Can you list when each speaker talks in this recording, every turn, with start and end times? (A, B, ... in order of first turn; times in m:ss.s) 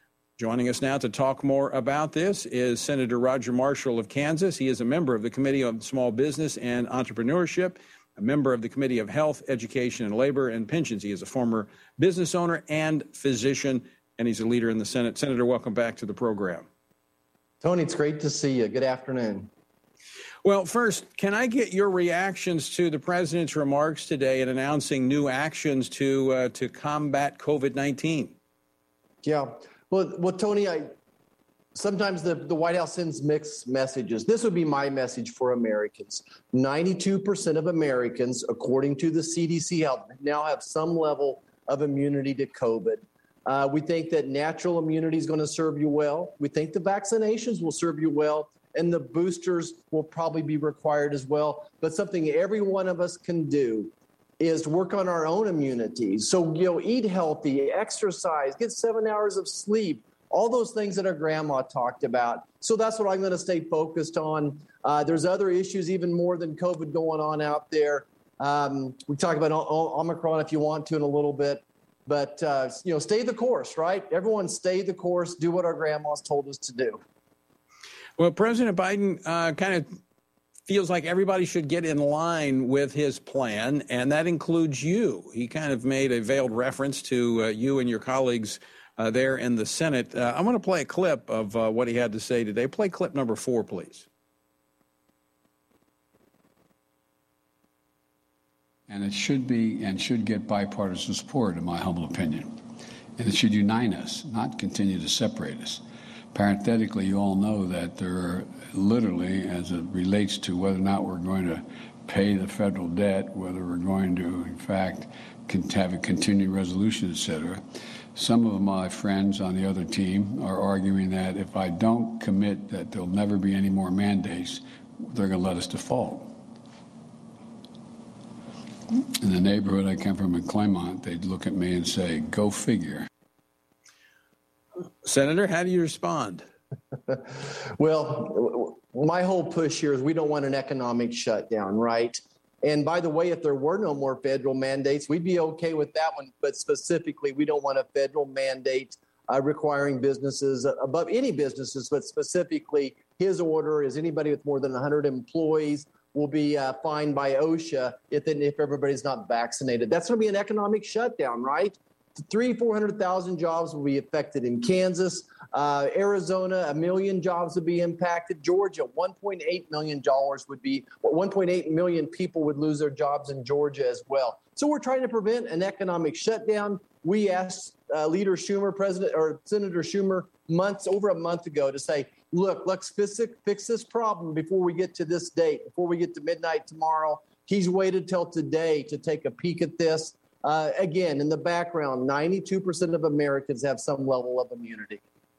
0:00.4-0:16.7 A
0:17.6-0:19.5 B
0:20.4-0:28.3 A
0:29.2-0:30.9 B
0:31.7-1:17.0 B
1:18.2-1:19.9 A
1:20.7-1:34.0 A
1:38.9-1:42.6 C
1:43.2-1:57.6 C
1:58.1-2:06.4 C
2:08.9-2:13.1 C
2:15.0-2:16.4 A
2:17.1-3:15.0 B